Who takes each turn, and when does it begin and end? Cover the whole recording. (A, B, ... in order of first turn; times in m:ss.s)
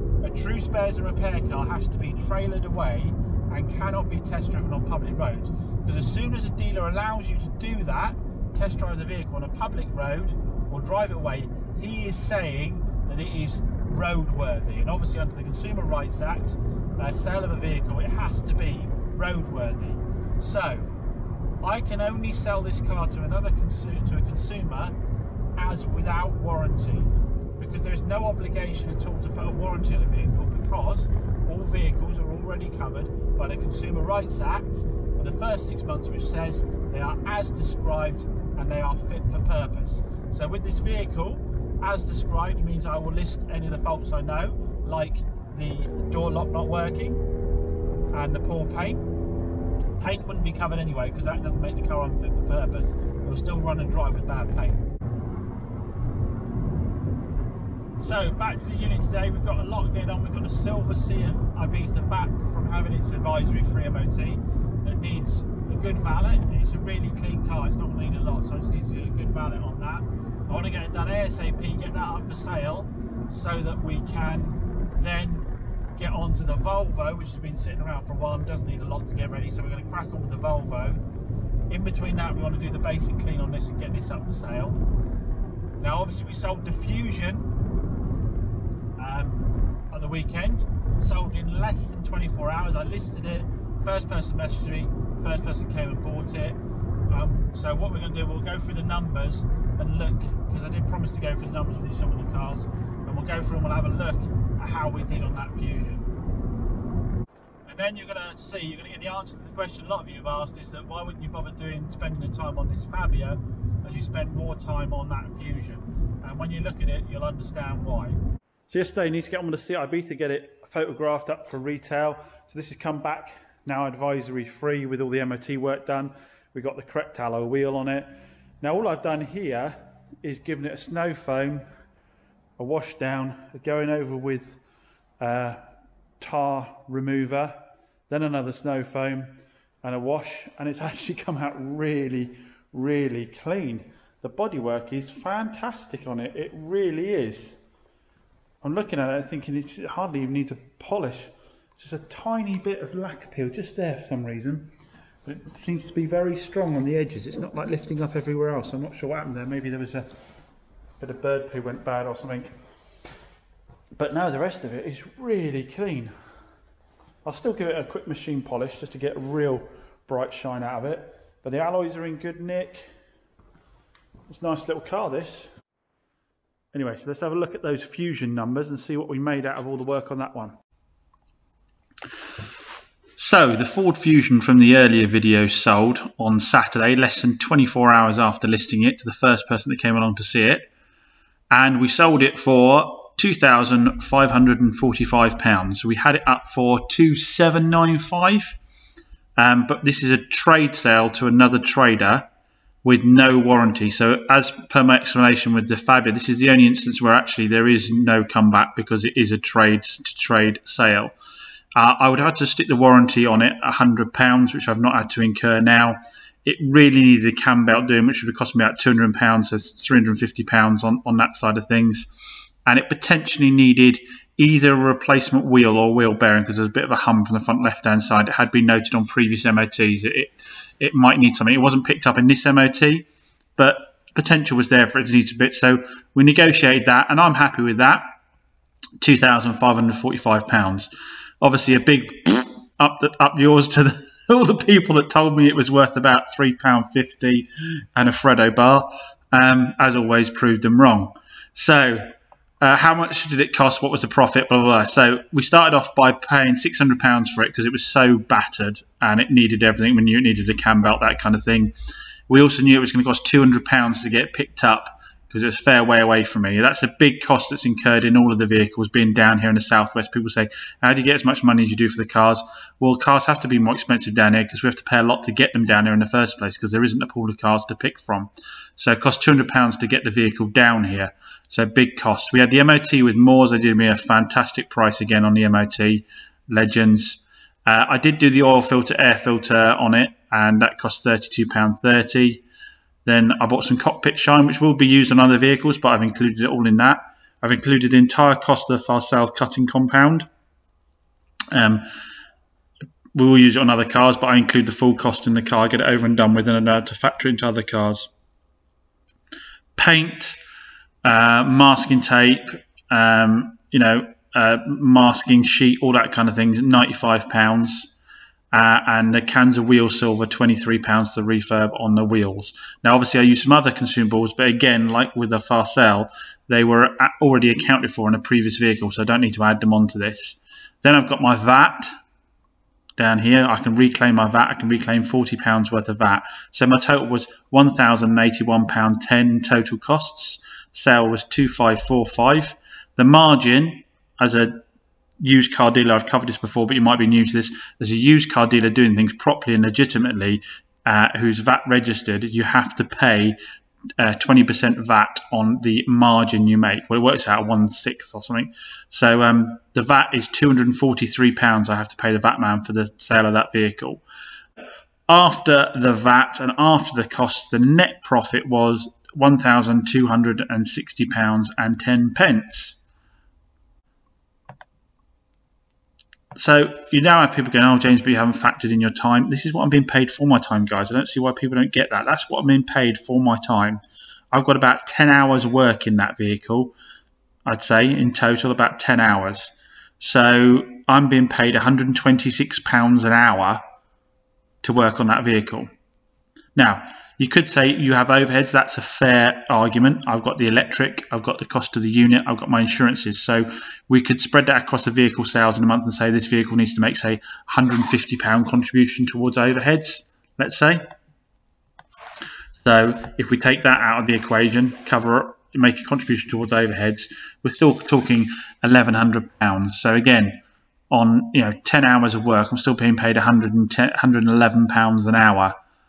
0:00.2-0:20.9 A
0:21.6-0:24.9 A
0:25.6-0:47.2 A
0:48.1-0:49.0 A
0:50.0-0:54.8 A
0:58.0-1:21.0 A
1:21.7-1:24.8 A
1:25.8-1:27.5 A
1:29.0-1:46.0 A
1:47.6-1:58.2 A
1:58.7-2:11.6 A
2:12.6-2:14.6 A
2:15.2-2:15.6 A
2:16.2-2:17.6 A
2:18.1-2:27.6 A
2:28.6-2:34.7 A
2:35.2-2:40.1 A
2:41.0-2:42.5 A
2:43.9-2:46.1 A
2:47.2-2:52.8 A
2:54.3-2:55.5 A
2:56.7-3:00.6 A
3:03.2-3:10.7 A
3:11.5-3:18.6 A
3:19.4-3:22.3 A
3:22.8-3:31.1 A
3:31.8-3:42.1 A
3:42.6-3:58.0 A
3:59.0-4:00.9 A
4:01.4-4:21.7 A
4:22.3-4:52.4 A
4:53.0-5:00.3 A
5:01.5-5:01.8 A
5:03.1-5:08.1 A
5:09.8-5:10.4 A
5:11.0-5:17.9 A
5:18.5-5:31.9 A
5:33.0-5:44.6 A
5:45.2-5:53.4 A
5:54.0-6:04.0 A
6:05.1-6:12.8 A
6:16.4-6:26.7 A
6:27.4-6:33.6 A
6:34.6-6:35.7 A
6:36.6-6:50.8 A
6:52.6-7:05.6 A